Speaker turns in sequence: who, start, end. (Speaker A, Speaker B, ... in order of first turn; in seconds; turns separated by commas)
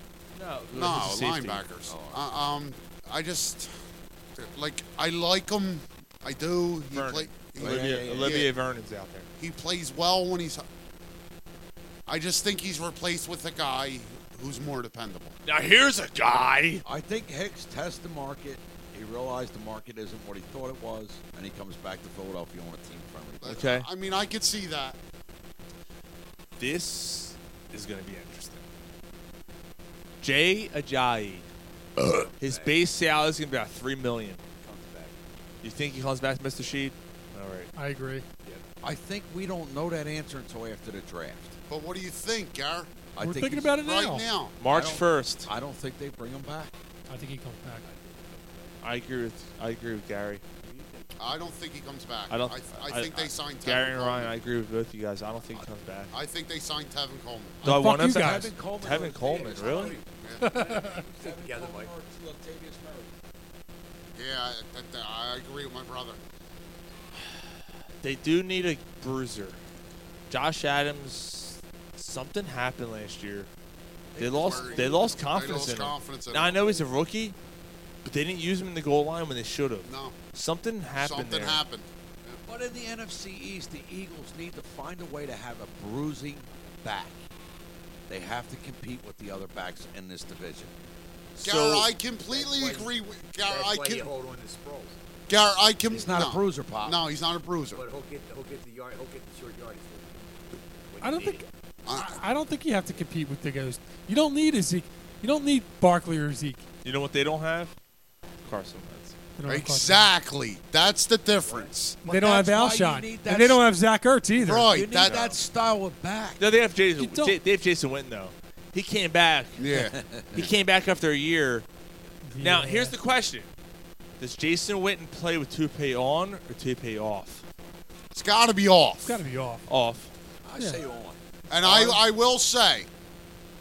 Speaker A: 0.3-1.6, Speaker B: 0.7-3.7, Speaker C: 1.9-2.2, Speaker B: 4.4-8.5, Speaker A: 6.9-9.3, Speaker C: 7.6-8.4, Speaker B: 9.4-10.7, Speaker B: 12.1-15.4, Speaker A: 15.4-16.8, Speaker C: 16.9-23.6, Speaker B: 23.4-25.0, Speaker A: 23.5-23.9, Speaker A: 26.6-28.6, Speaker A: 30.2-31.5, Speaker D: 32.0-32.8, Speaker A: 32.4-34.4, Speaker D: 34.6-35.1, Speaker A: 35.6-37.7, Speaker E: 37.7-38.2, Speaker C: 38.8-41.6, Speaker B: 41.7-42.9, Speaker C: 43.1-43.7, Speaker E: 43.2-44.3, Speaker B: 43.8-44.6, Speaker A: 44.6-45.5, Speaker C: 44.7-46.7, Speaker E: 47.1-47.8, Speaker D: 47.8-48.7, Speaker A: 48.8-50.4, Speaker D: 50.6-51.5, Speaker B: 51.2-54.3, Speaker A: 52.3-56.1, Speaker B: 56.1-57.6, Speaker E: 57.6-58.5, Speaker A: 57.6-60.0, Speaker C: 58.1-63.1, Speaker D: 59.4-60.1, Speaker E: 60.4-61.0, Speaker D: 60.9-61.9, Speaker B: 64.2-66.2, Speaker A: 68.0-69.6, Speaker A: 70.3-73.5, Speaker C: 74.2-75.6, Speaker A: 74.2-77.4, Speaker B: 74.3-76.8, Speaker A: 78.0-81.6, Speaker B: 79.8-80.2, Speaker B: 81.0-82.4, Speaker C: 82.5-87.2, Speaker C: 88.1-90.7, Speaker B: 91.4-94.1, Speaker D: 92.2-95.0, Speaker B: 95.3-97.8, Speaker C: 95.9-97.0, Speaker D: 97.7-100.2, Speaker D: 100.9-101.4, Speaker E: 101.0-106.6, Speaker B: 101.9-102.2, Speaker A: 106.8-107.7, Speaker A: 108.4-109.2, Speaker E: 109.4-110.1, Speaker B: 109.5-112.0, Speaker D: 111.4-111.7, Speaker C: 112.0-113.7, Speaker E: 112.1-114.7, Speaker B: 114.4-115.3, Speaker C: 114.7-116.4, Speaker A: 115.0-115.3, Speaker A: 116.4-119.7, Speaker E: 117.0-117.4, Speaker B: 119.6-120.5, Speaker C: 119.8-120.4, Speaker A: 120.3-121.7, Speaker E: 122.2-122.9, Speaker A: 122.4-123.5, Speaker A: 124.2-127.4, Speaker B: 128.1-129.2, Speaker E: 129.0-129.7, Speaker A: 129.7-130.1, Speaker C: 130.4-131.9, Speaker B: 131.5-132.9